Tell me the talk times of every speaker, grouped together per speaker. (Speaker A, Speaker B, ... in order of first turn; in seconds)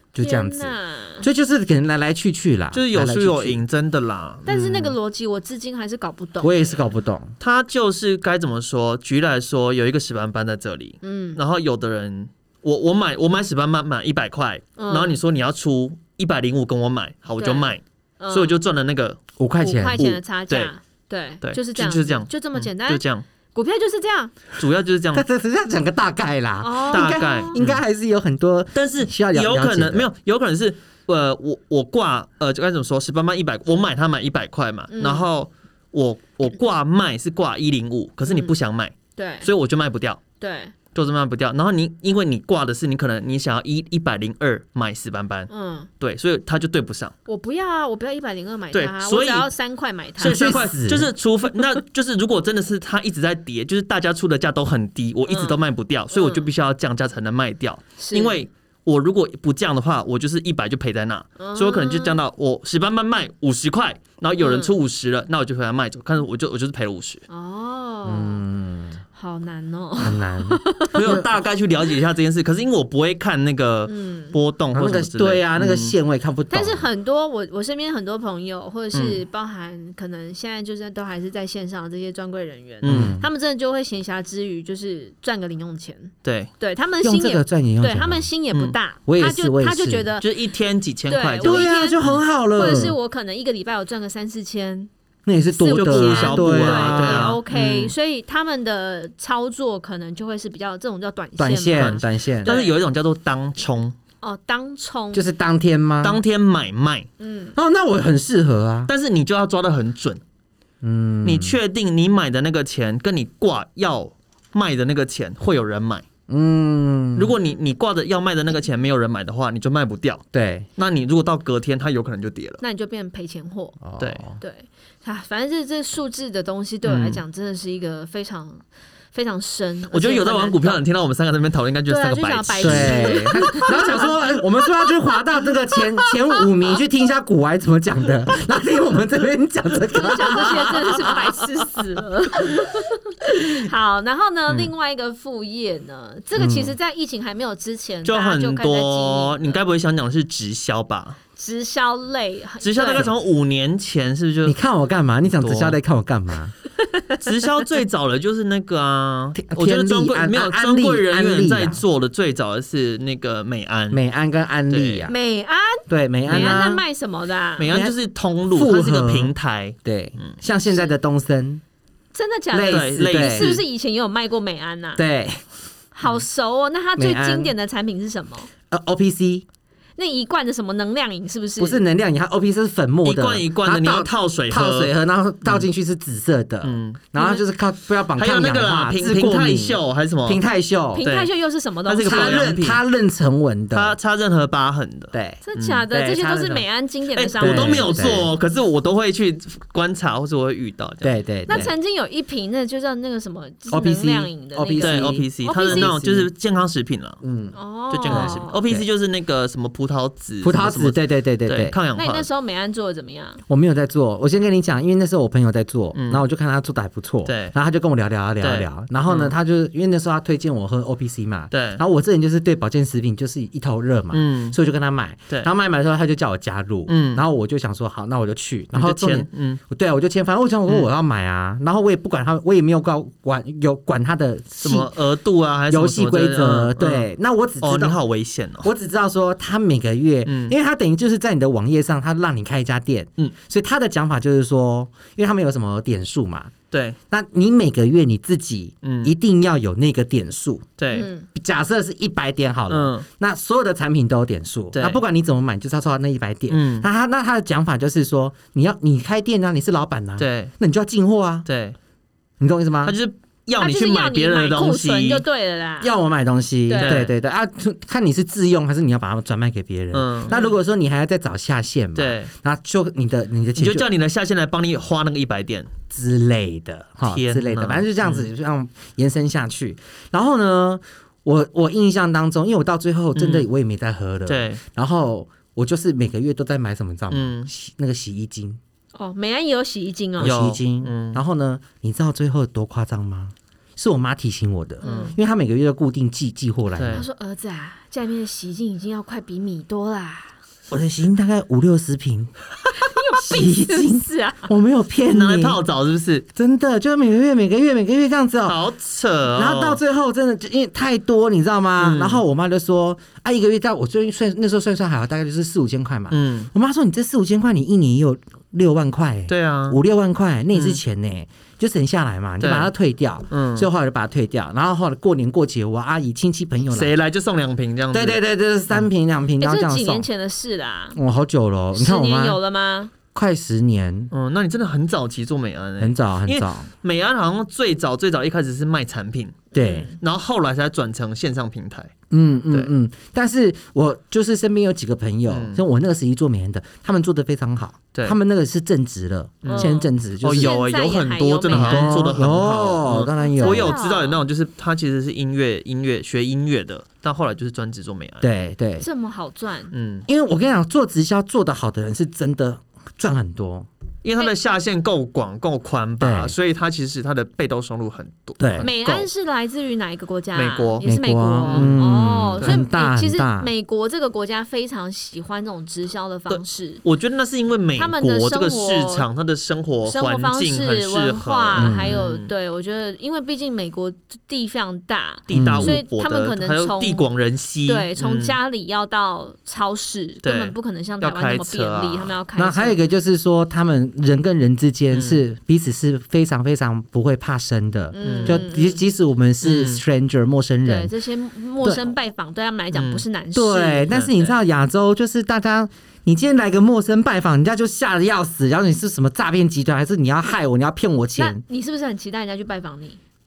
Speaker A: 0.1-3.6, 6.4-7.3, 19.4-20.0, 25.1-30.1, 50.2-51.1, 68.0-69.0, 70.0-71.3, 74.7-76.9, 82.9-83.3, 87.0-88.3, 89.1-90.1, 91.4-93.0, 95.3-97.4, 101.4-102.5, 105.1-106.2, 107.5-108.9, 110.8-111.6, 116.3-117.4, 120.3-120.7, 123.8-124.4, 132.6-141.2, 146.4-146.8, 154.4-156.5, 159.4-161.8, 163.9-165.2, 165.9-166.8, 167.7-167.9, 168.5-169.3, 169.8-171.6, 172.5-173.5, 175.0-175.4, 177.0-177.5, 178.7-179.4, 181.6-191.1, 192.1-194.0, 195.1-196.6, 197.4-198.3, 201.0-201.7, 203.7-206.3, 207.2-208.8, 210.4-211.8, 213.5-234.9, 235.7-238.0, 238.6-246.5, 247.1-250.7, 251.3-261.5, 262.4-263.0, 265.8-273.9, 275.9-288.6, 290.2-297.1, 300.7-302.3, 302.9-305.6, 306.4-308.6, 309.3-326.9, 327.9-330.1, 330.9-332.4, 333.1-334.1, 335.8-336.7, 339.5-339.9, 342.1-350.6, 351.5-353.8, 358.2-358.9, 360.1-363.7, 366.0-366.4, 368.4-368.7, 370.8-373.5, 381.6-382.0, 385.3-385.8, 392.4-400.9, 401.6-401.9, 403.3-411.4
Speaker B: 0.2-1.3, 4.5-6.6, 11.0-11.4, 14.8-15.2, 17.4-18.6, 19.6-24.4, 26.6-27.6, 34.9-35.2, 38.3-38.5, 39.2-39.5, 40.4-40.7, 45.5-45.9, 47.3-50.7, 55.3-55.6, 56.1-56.5, 58.0-58.5, 61.4-62.2, 64.4-64.7, 67.3-68.4, 69.1-71.2, 73.9-74.4, 76.5-90.3, 91.1-92.0, 92.5-94.9, 95.5-102.8, 104.2-105.3, 107.2-107.5, 122.6-123.8, 124.4-130.8, 131.9-136.7, 139.9-149.6, 151.4-153.1, 156.9-157.2, 165.1-167.7, 172.1-175.0, 175.9-178.5, 180.0-181.8, 187.2-187.4, 190.9-192.5, 195.4-198.3, 201.5-205.9, 207.6-208.6, 211.9-213.4, 250.9-251.3, 263.6-265.9, 266.7-267.1, 288.9-290.4, 294.8-295.2, 296.9-300.4, 302.7-304.5, 329.4-331.0, 331.8-332.9, 339.5-340.0, 349.5-352.1, 353.2-354.2, 358.8-359.7, 368.6-376.8, 377.8-379.1, 379.9-387.1, 387.7-392.8, 397.9-398.8, 400.6-403.9, 411.2-413.0
Speaker C: 2.7-5.0, 7.4-19.2, 20.0-20.7, 21.4-23.2, 24.6-25.2, 26.9-27.8, 28.8-40.2, 40.9-47.1, 48.7-49.5, 50.2-67.2, 70.9-75.9, 78.9-79.2, 82.8-83.2, 86.2-86.5, 90.2-92.8, 95.7-97.9, 101.7-104.0, 106.0-107.1, 108.9-110.2, 111.2-116.0, 117.2-120.2, 120.8-122.6, 126.8-127.2, 129.9-133.4, 144.5-144.7, 148.1-151.2, 152.6-154.6, 155.4-155.8, 157.2-164.0, 164.7-165.1, 166.3-166.6, 167.6-170.4, 172.6-173.6, 183.1-184.9, 186.6-187.0, 188.2-190.4, 191.0-191.3, 191.9-192.8, 193.7-195.8, 197.2-201.7, 204.8-207.2, 207.9-212.3, 215.9-216.2, 217.3-217.5, 218.4-219.3, 221.5-221.8, 224.1-224.6, 226.9-227.2, 228.7-229.6, 234.6-237.1, 237.6-238.7, 240.3-240.6, 246.7-247.0, 248.8-249.1, 250.8-251.1, 252.7-253.1, 254.7-255.0, 256.5-256.9, 260.2-260.5, 261.5-261.8, 262.8-265.2, 266.8-267.1, 269.9-270.4, 272.0-272.3, 273.6-275.7, 277.1-278.3, 283.1-283.5, 284.3-284.6, 287.1-287.5, 290.2-291.2, 294.8-295.1, 296.8-297.1, 305.1-306.3, 308.5-309.8, 311.8-312.2, 316.1-316.5, 319.3-319.8, 320.5-320.8, 322.4-322.7, 323.3-323.7, 326.7-328.2, 334.1-341.9, 345.3-345.6, 349.4-358.3, 359.7-360.1, 364.0-369.1, 370.4-370.8, 371.5-371.8, 376.3-382.3, 385.3-388.4, 390.2-392.2, 394.9-395.2, 398.0-398.4, 399.4-399.8, 402.7-403.0, 403.9-404.3